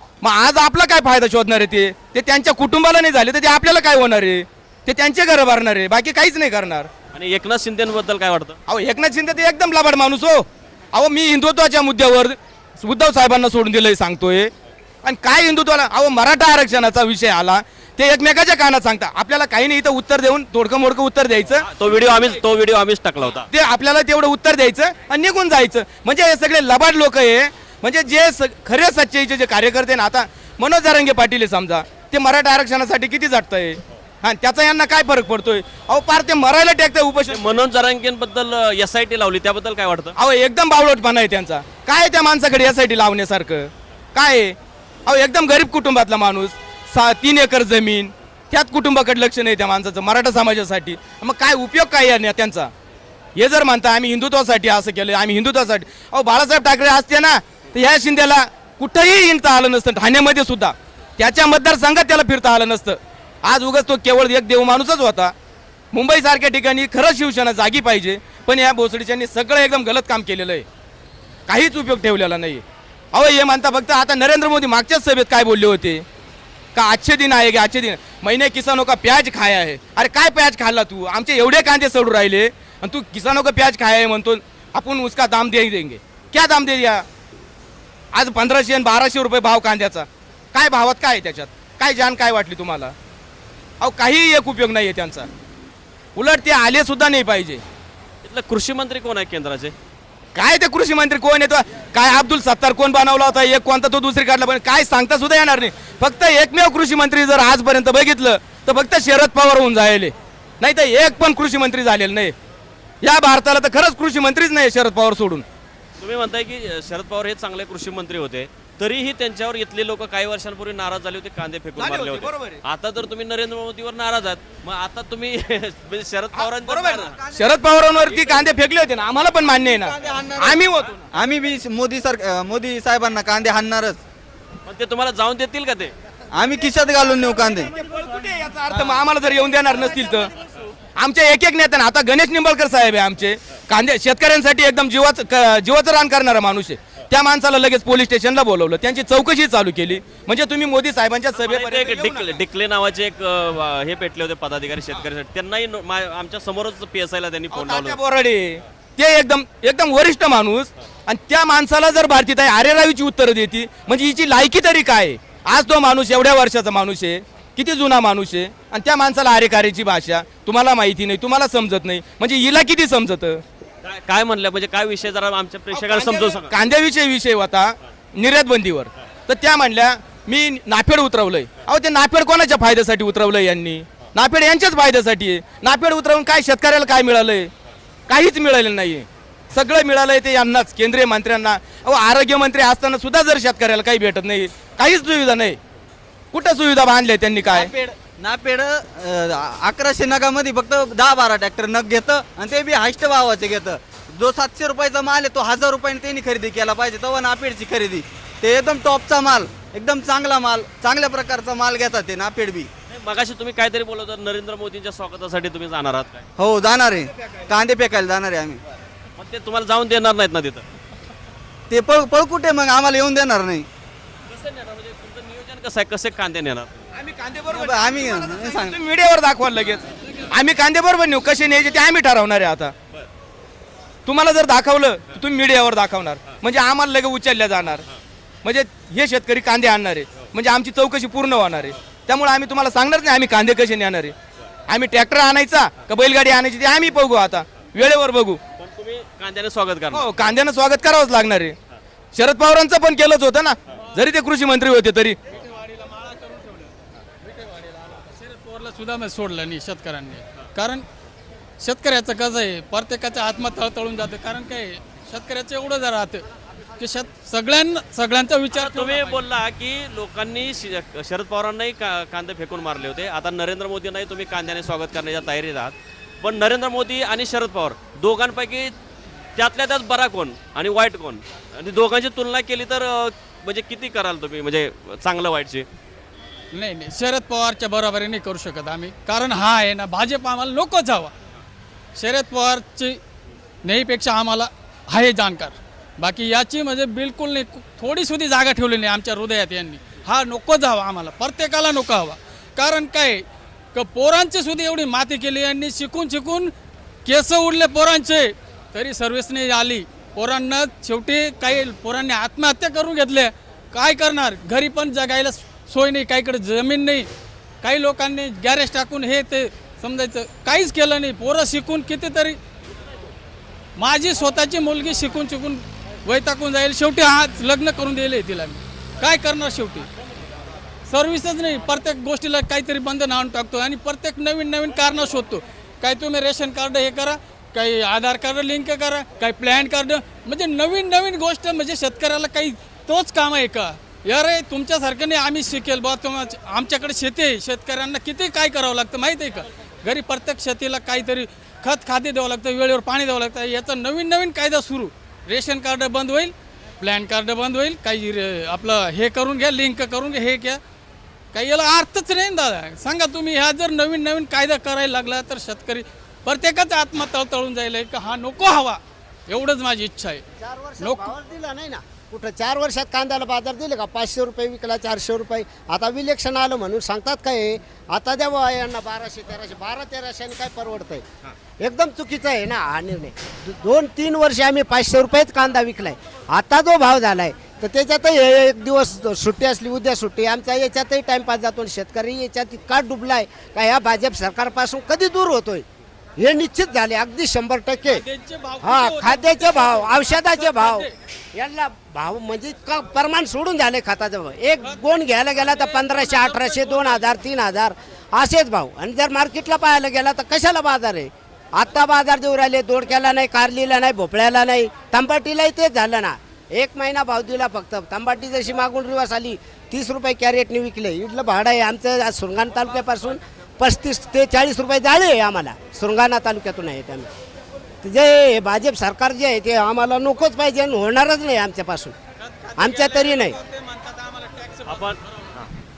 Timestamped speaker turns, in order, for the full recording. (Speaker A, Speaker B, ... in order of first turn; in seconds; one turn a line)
Speaker A: 0.2-6.9
Speaker B: 7.1-8.6
Speaker A: 8.7-14.5
Speaker A: 15.0-21.6
Speaker B: 21.6-23.5
Speaker A: 23.5-37.4
Speaker B: 37.3-40.1
Speaker A: 40.2-52.7
Speaker A: 53.4-65.3
Speaker A: 65.9-70.6
Speaker A: 71.5-76.0
Speaker A: 76.7-87.0
Speaker A: 88.1-92.9
Speaker A: 93.8-95.3
Speaker A: 96.2-97.6
Speaker B: 98.2-99.7
Speaker A: 100.3-112.3
Speaker A: 113.0-115.4
Speaker B: 116.0-127.2
Speaker A: 121.8-122.6
Speaker A: 126.3-131.1
Speaker C: 127.1-127.5
Speaker C: 129.4-134.0
Speaker B: 134.7-135.9
Speaker C: 136.3-137.7
Speaker A: 137.7-140.3
Speaker C: 138.7-139.0
Speaker A: 140.9-152.4
Speaker B: 151.3-158.0
Speaker A: 157.5-173.4
Speaker B: 173.8-176.5
Speaker A: 175.7-187.5
Speaker A: 188.1-195.6
Speaker A: 196.3-197.7
Speaker C: 197.5-212.7
Speaker B: 212.9-216.2
Speaker C: 216.4-218.6
Speaker B: 219.2-220.6
Speaker C: 221.7-223.7
Speaker B: 224.3-226.8
Speaker A: 226.9-232.7
Speaker C: 227.5-228.8
Speaker A: 234.1-237.8
Speaker A: 238.4-244.1
Speaker A: 244.7-248.4
Speaker B: 248.6-250.1
Speaker A: 249.9-251.5
Speaker A: 252.1-255.2
Speaker D: 255.3-256.7
Speaker D: 257.7-260.8
Speaker D: 261.6-266.2
Speaker D: 266.8-269.2
Speaker B: 268.5-278.7
Speaker B: 279.4-285.7
Speaker D: 286.5-291.1
Speaker D: 291.9-293.0
Speaker D: 293.6-306.5
Speaker D: 307.0-317.1
Speaker D: 317.6-322.4
Speaker D: 323.8-329.9
Speaker D: 330.9-360.6
Speaker D: 361.3-370.2
Speaker E: 370.4-381.1
Speaker D: 370.8-371.1
Speaker E: 381.6-395.6
Speaker E: 396.2-398.0
Speaker D: 397.9-400.9
Speaker E: 398.6-427.1
Speaker D: 404.6-407.1
Speaker E: 427.8-431.9
Speaker D: 432.2-434.9
Speaker E: 432.6-433.4
Speaker B: 434.7-435.0